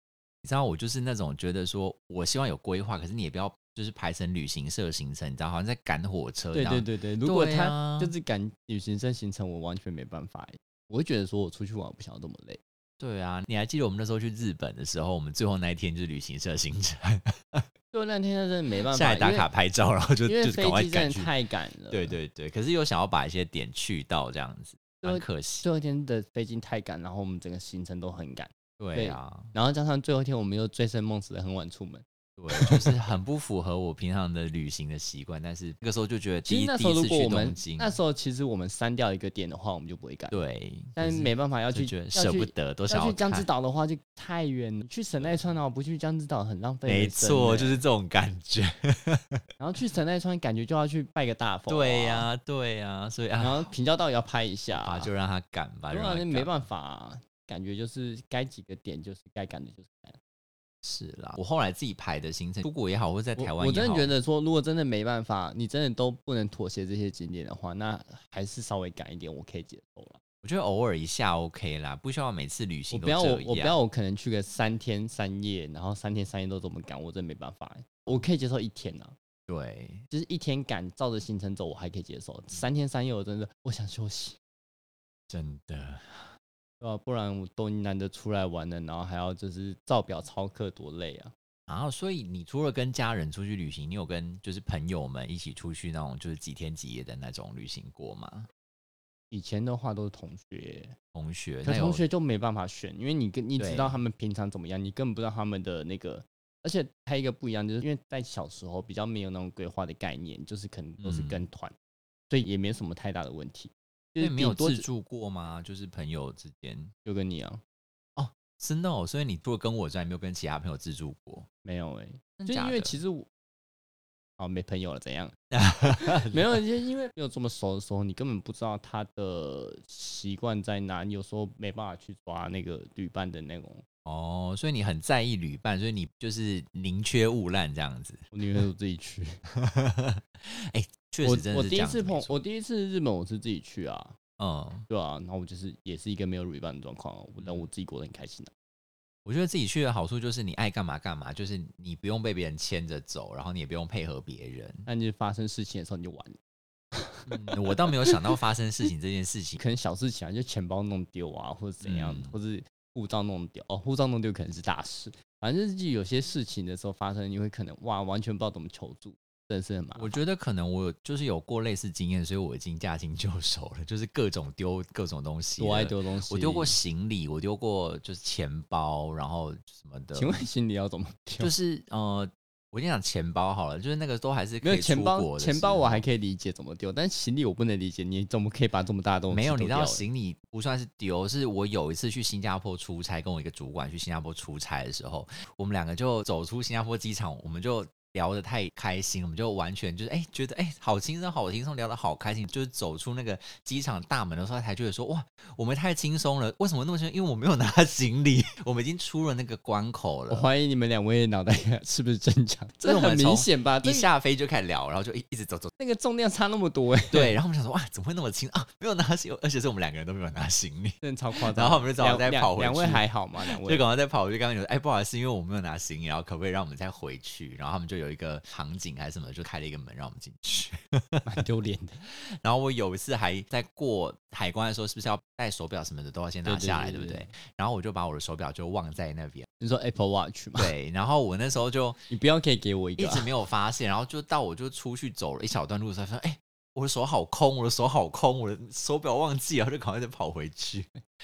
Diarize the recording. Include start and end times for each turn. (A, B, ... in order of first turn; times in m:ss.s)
0:00.4-0:08.1 A
0:06.5-0:12.6 B
0:13.0-0:17.7 A
0:17.9-0:19.5 B
0:18.9-0:21.3 A
0:20.3-0:22.2 B
0:21.9-0:25.7 A
0:25.0-0:33.0 B
0:28.8-0:29.5 A
0:32.4-0:38.0 A
0:36.5-0:40.4 B
0:40.3-0:43.5 A
0:41.0-0:47.8 B
0:45.2-0:45.6 A
0:46.9-0:49.4 A
0:49.6-0:52.3 B
0:51.7-0:53.7 A
0:53.4-0:55.1 B
0:54.7-0:56.5 A
0:55.9-1:00.2 B
1:00.8-1:04.1 A
1:03.4-1:10.2 B
1:10.4-1:13.8 A
1:12.9-1:19.2 B
1:19.5-1:20.0 A
1:20.1-1:24.4 B
1:25.3-1:26.3 A
1:26.8-1:31.3 B
1:31.7-1:38.5 A
1:39.3-1:41.0 B
1:41.1-1:42.0 A
1:41.6-1:51.7 B
1:43.6-1:44.0 A
1:51.0-1:51.4 A
1:52.3-1:54.9 B
1:54.2-1:56.9 A
1:57.0-1:57.6 B
1:58.2-2:01.5 A
2:01.6-2:03.3 B
2:02.4-2:03.0 A
2:04.4-2:05.3 B
2:05.5-2:06.6 A
2:05.9-2:13.8 B
2:14.0-2:18.2 A
2:18.3-2:19.4 B
2:19.5-2:22.4 A
2:21.2-2:24.2 B
2:24.4-2:24.9 A
2:24.9-2:28.5 B
2:27.4-2:27.7 A
2:29.2-2:34.9 A
2:34.9-2:36.4 B
2:36.9-2:38.2 B
2:37.3-2:39.6 A
2:39.6-2:50.2 B
2:41.8-2:42.4 A
2:50.0-3:00.4 A
2:55.6-2:56.8 B
3:00.1-3:01.5 B
3:01.4-3:06.0 A
3:04.6-3:10.0 B
3:09.3-3:30.5 A
3:30.3-3:34.1 B
3:32.8-3:35.7 A
3:35.8-3:37.4 B
3:37.1-3:41.0 A
3:41.0-3:43.8 B
3:41.5-3:51.3 A
3:51.3-3:52.0 B
3:52.0-3:59.5 A
3:56.4-3:57.3 B
3:59.6-4:00.7 B
4:00.6-4:02.0 A
4:02.1-4:03.3 B
4:03.0-4:10.9 A